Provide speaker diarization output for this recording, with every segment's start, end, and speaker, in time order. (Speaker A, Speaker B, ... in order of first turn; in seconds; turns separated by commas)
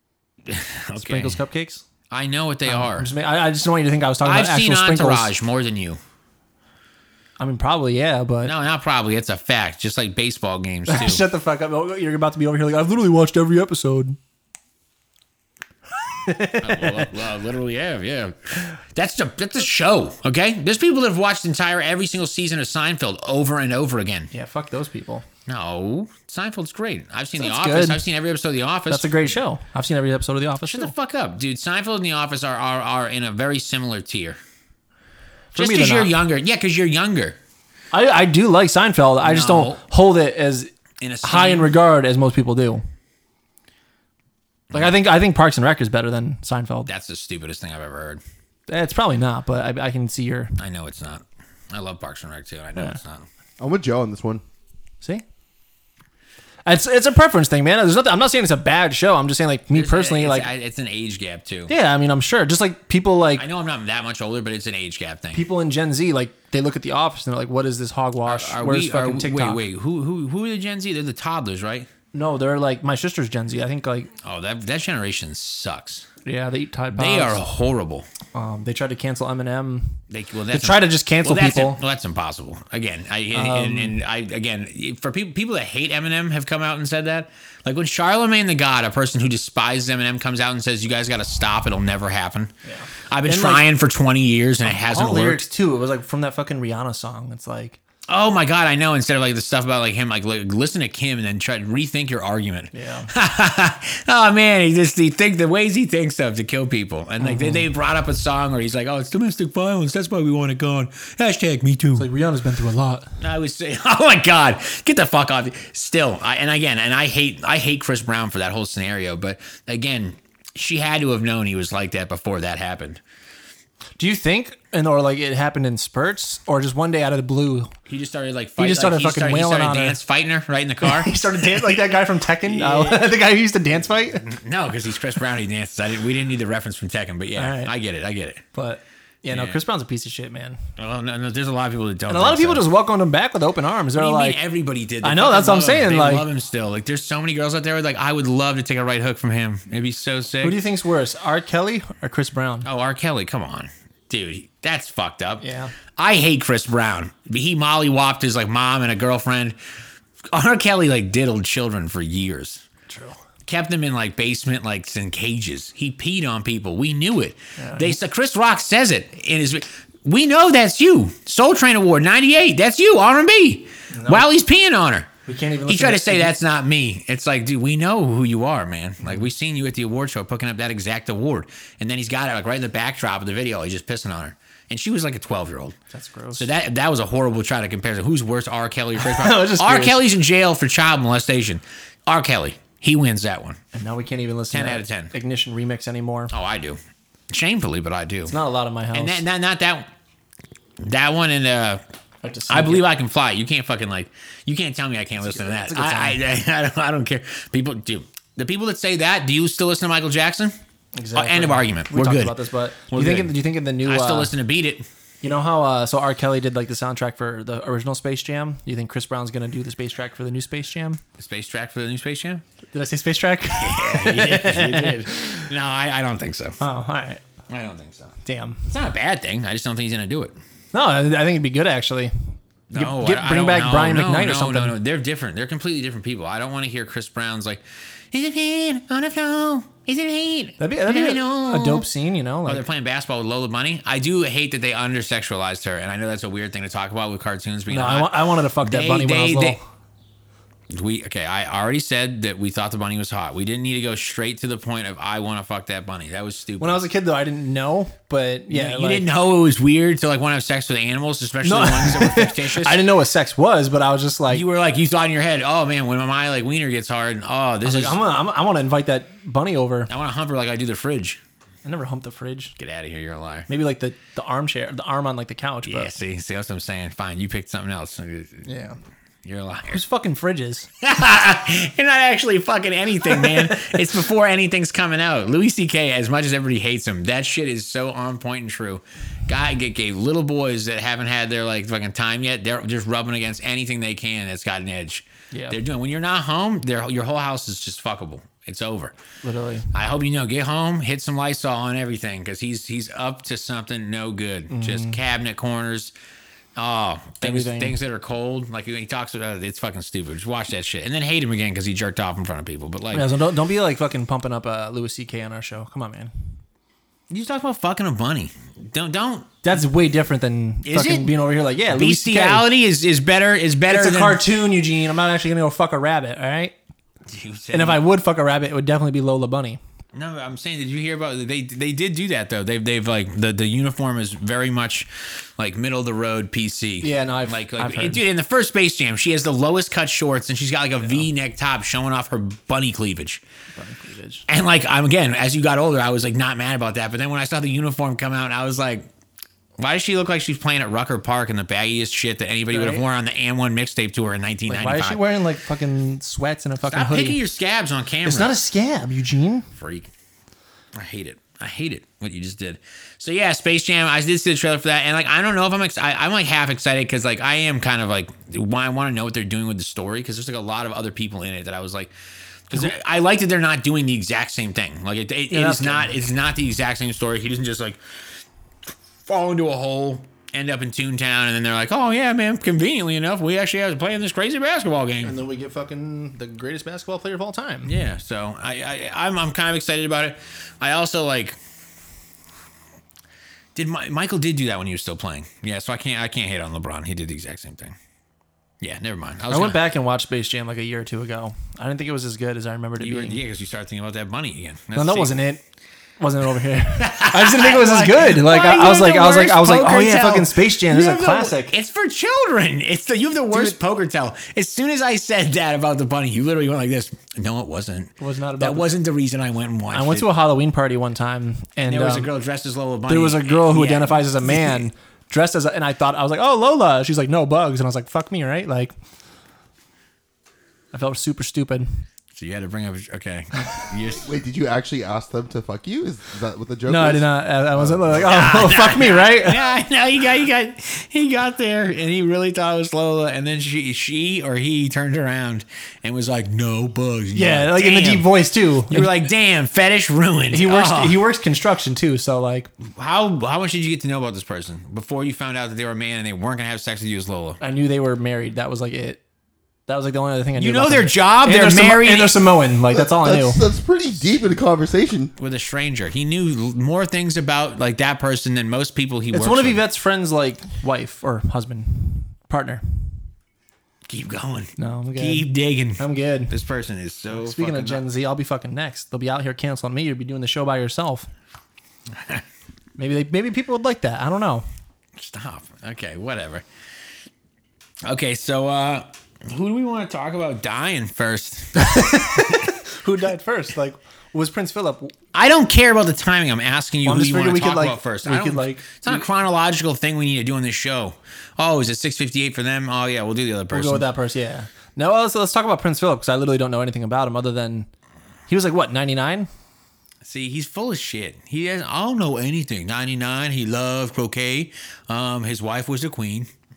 Speaker A: 0.4-1.4, Speaker B: 0.9-1.8, Speaker A: 2.1-3.1, Speaker B: 2.6-5.3, Speaker A: 4.2-6.0, Speaker B: 7.4-8.5, Speaker A: 8.4-11.2, Speaker B: 10.9-14.2, Speaker B: 16.1-17.1, Speaker A: 16.6-24.3, Speaker B: 24.3-25.2, Speaker A: 25.4-29.3, Speaker B: 27.4-28.0, Speaker B: 28.9-30.9, Speaker A: 30.6-34.4, Speaker B: 35.5-36.1, Speaker A: 35.5-37.4, Speaker B: 37.9-40.7, Speaker A: 39.2-39.8, Speaker A: 41.0-41.8, Speaker B: 41.2-42.8, Speaker A: 44.7-45.0, Speaker B: 44.7-46.9, Speaker A: 46.9-48.2, Speaker B: 48.7-50.5, Speaker A: 50.6-53.3, Speaker C: 53.6-54.4, Speaker B: 56.6-60.5, Speaker A: 59.7-61.7, Speaker B: 61.7-63.4, Speaker A: 63.4-65.4, Speaker B: 65.3-69.6, Speaker A: 68.3-71.9, Speaker B: 72.1-74.1, Speaker A: 74.2-76.1, Speaker B: 76.2-77.4, Speaker A: 76.9-78.1, Speaker B: 78.3-81.8, Speaker A: 80.1-92.5, Speaker B: 83.3-84.0, Speaker B: 92.6-93.7, Speaker A: 93.1-95.4, Speaker B: 94.6-97.8, Speaker A: 98.1-112.1, Speaker B: 102.7-103.1, Speaker B: 107.2-107.7, Speaker B: 111.9-113.2, Speaker A: 113.2-123.0, Speaker B: 124.0-127.7, Speaker A: 127.9-133.1, Speaker B: 128.6-130.0, Speaker B: 130.8-134.3, Speaker A: 134.2-138.4, Speaker B: 137.4-137.7, Speaker B: 138.5-140.6, Speaker A: 139.3-139.6, Speaker A: 140.8-142.7, Speaker B: 142.1-144.4, Speaker A: 143.9-150.6, Speaker B: 145.0-146.2, Speaker B: 150.4-152.7, Speaker A: 152.6-155.4, Speaker B: 155.4-155.7, Speaker A: 156.0-159.6, Speaker A: 160.3-162.6, Speaker B: 162.9-163.2, Speaker A: 163.4-175.1, Speaker B: 167.6-167.9, Speaker B: 173.9-174.3, Speaker B: 175.2-176.3, Speaker A: 175.7-185.8, Speaker B: 185.9-186.5, Speaker A: 186.3-193.6, Speaker B: 189.0-190.0, Speaker B: 193.7-196.3, Speaker A: 194.5-195.1, Speaker A: 196.3-198.3, Speaker B: 198.3-199.2, Speaker A: 198.9-199.9, Speaker A: 200.8-201.8, Speaker B: 202.2-202.8, Speaker A: 202.5-210.6, Speaker B: 205.2-206.2, Speaker B: 210.9-214.3, Speaker A: 211.1-212.4, Speaker A: 212.9-214.8, Speaker B: 215.2-221.0, Speaker A: 221.2-222.4, Speaker B: 222.7-225.5, Speaker A: 223.5-226.6, Speaker B: 226.6-227.2, Speaker A: 227.5-228.1, Speaker B: 228.2-228.7, Speaker A: 228.7-230.3, Speaker B: 230.7-232.1, Speaker A: 232.7-241.9, Speaker B: 232.7-234.8, Speaker B: 240.6-242.6, Speaker A: 242.4-249.6, Speaker B: 247.7-249.6, Speaker A: 250.7-256.8, Speaker B: 256.6-259.1, Speaker A: 258.5-262.9, Speaker B: 261.4-264.4, Speaker A: 264.3-268.0, Speaker B: 267.6-269.9, Speaker A: 269.9-271.2, Speaker B: 271.6-272.5, Speaker A: 272.6-273.5, Speaker B: 273.5-275.9, Speaker A: 275.6-278.5, Speaker B: 278.4-278.8, Speaker A: 279.2-279.8, Speaker B: 279.7-280.7, Speaker A: 280.8-298.9, Speaker B: 283.0-283.8, Speaker B: 295.3-295.6, Speaker B: 299.2-299.7, Speaker A: 299.7-305.9, Speaker B: 304.5-305.0, Speaker A: 306.6-313.1, Speaker B: 307.2-307.8, Speaker B: 312.9-316.1, Speaker A: 317.1-319.3, Speaker B: 319.4-322.4, Speaker A: 320.6-321.2, Speaker A: 321.7-324.2, Speaker B: 323.7-326.5, Speaker A: 327.1-327.8, Speaker B: 327.5-329.6, Speaker A: 329.9-343.2, Speaker B: 336.8-338.0, Speaker B: 343.6-344.2, Speaker A: 344.3-348.9, Speaker A: 349.6-355.0, Speaker B: 352.5-352.8, Speaker B: 354.5-357.2, Speaker A: 356.7-358.4, Speaker B: 358.0-359.5, Speaker A: 359.6-359.9, Speaker A: 360.7-371.9, Speaker A: 372.5-377.8, Speaker B: 375.3-375.9, Speaker A: 379.0-385.2, Speaker B: 385.0-387.8, Speaker A: 387.6-391.4, Speaker A: 393.5-397.8, Speaker A: 398.6-399.6, Speaker B: 399.3-403.2, Speaker A: 402.8-405.2, Speaker B: 404.7-405.4, Speaker B: 406.0-411.5, Speaker A: 406.8-420.1, Speaker B: 418.0-418.7, Speaker B: 419.7-422.1, Speaker A: 421.6-424.6, Speaker B: 422.9-428.7, Speaker B: 430.7-431.6, Speaker A: 432.1-434.1, Speaker C: 434.0-438.0, Speaker B: 436.7-439.4, Speaker A: 437.9-448.1, Speaker B: 447.1-448.9, Speaker A: 448.7-451.0, Speaker B: 450.3-452.5, Speaker A: 452.6-457.4, Speaker B: 457.4-459.0, Speaker B: 459.7-463.4, Speaker A: 460.4-462.2, Speaker C: 462.7-465.1, Speaker A: 465.2-469.6, Speaker B: 469.1-472.6, Speaker A: 473.9-477.8, Speaker B: 474.6-476.3, Speaker B: 477.1-481.1, Speaker A: 481.9-482.2, Speaker B: 482.8-484.4, Speaker A: 484.9-486.4, Speaker A: 487.9-492.5, Speaker B: 491.6-494.9, Speaker A: 495.1-503.9, Speaker B: 496.8-499.0, Speaker B: 503.5-507.7, Speaker B: 508.3-509.3, Speaker A: 510.0-516.3